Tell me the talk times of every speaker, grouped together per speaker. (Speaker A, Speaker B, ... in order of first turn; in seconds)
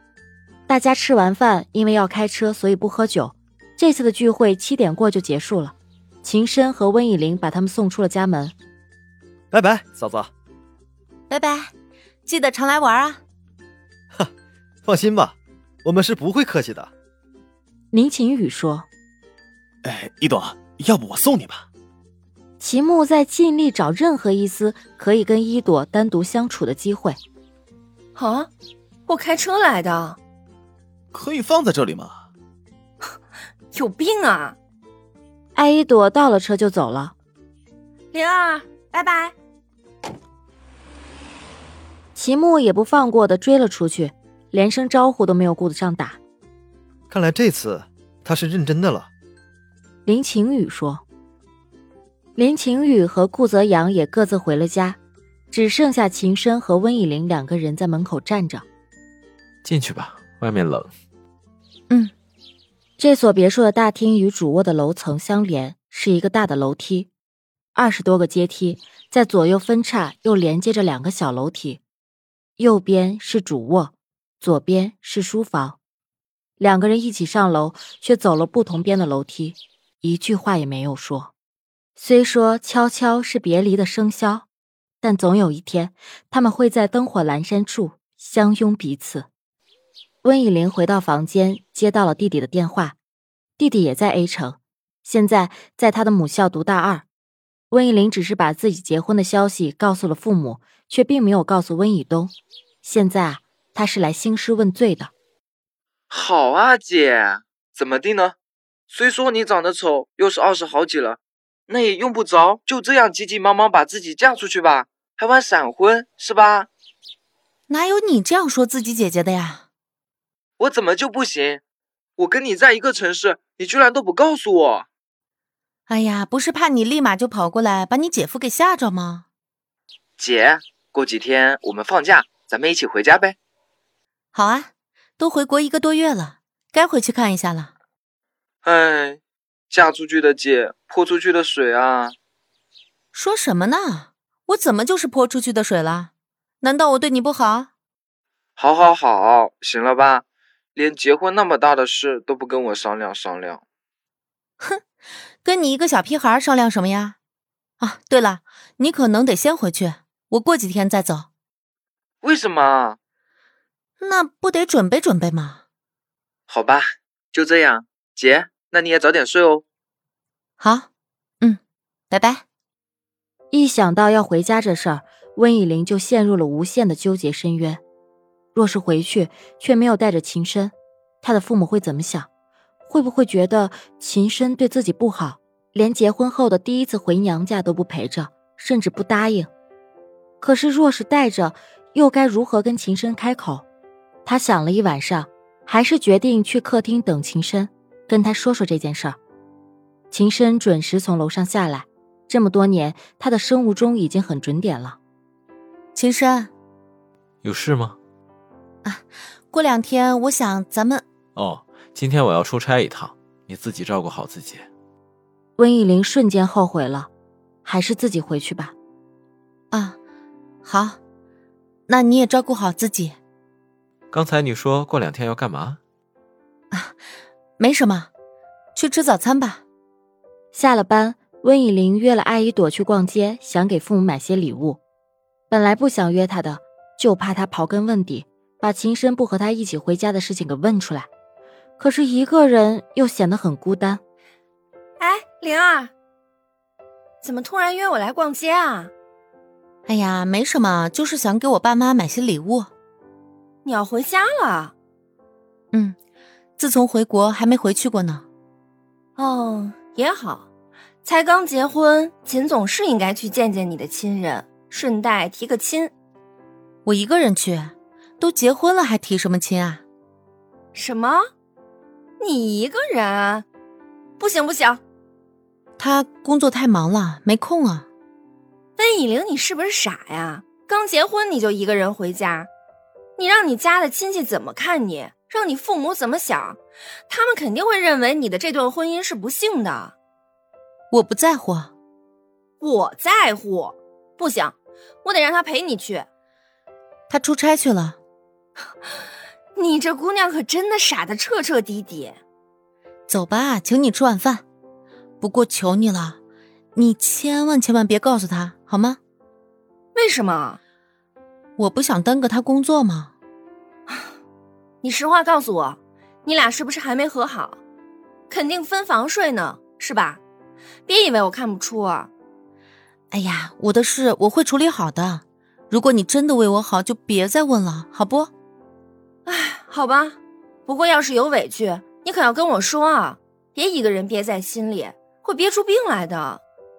Speaker A: 0.7-8.5, 17.9-18.9, 22.6-27.2, 35.5-37.1, 42.1-46.2, 50.0-51.0, 52.4-55.0, 55.5-58.6, 63.0-67.1, 67.7-71.8, 72.6-75.8, 76.6-81.3, 82.0-84.5, 85.0-89.3, 90.2-93.0, 93.6-97.0, 97.7-105.1, 173.5-177.8, 178.5-182.3, 182.9-189.5, 190.4-193.6, 194.2-199.2, 200.1-205.0, 215.6-217.1, 217.6-218.7, 230.5-234.8, 235.5-241.1, 241.8-244.0
Speaker B: 9.5-10.3, 14.8-16.9, 47.1-49.1
Speaker C: 11.3-11.7, 12.2-13.2, 117.7-119.6, 125.9-129.2, 134.3-137.7, 143.1-146.1, 146.6-147.7, 155.4-157.2, 157.8-161.3, 164.0-165.6, 170.6-170.8, 172.1-172.4, 205.9-206.5, 208.8-211.0, 219.7-220.0, 220.6-221.0, 221.9-223.2, 227.6-228.1, 228.8-229.6, 249.9-252.7, 256.6-258.2, 266.9-269.8, 275.8-277.9, 290.9-291.7, 297.1-298.0, 303.1-304.4, 305.2-306.2, 306.8-309.0, 311.6-313.1, 323.1-328.3
Speaker D: 19.8-21.6, 31.1-32.2
Speaker E: 28.1-28.5, 29.1-30.2, 33.7-34.5, 38.1-39.3, 245.0-245.9, 247.2-248.9, 253.6-254.7, 259.2-260.5, 261.0-265.9, 270.7-271.2, 272.2-273.4, 274.2-274.8, 278.8-282.5, 283.2-289.9, 292.6-296.1, 299.5-302.2, 309.9-310.6, 314.8-317.6, 318.3-320.2, 320.9-322.1, 329.2-336.4
Speaker F: 59.6-60.9, 207.4-208.0, 211.3-214.7, 224.1-225.8
Speaker G: 106.1-108.3, 108.9-116.7, 120.6-121.6, 122.2-124.9, 130.2-133.4, 138.6-142.1, 148.6-153.6, 162.2-163.0, 166.5-169.6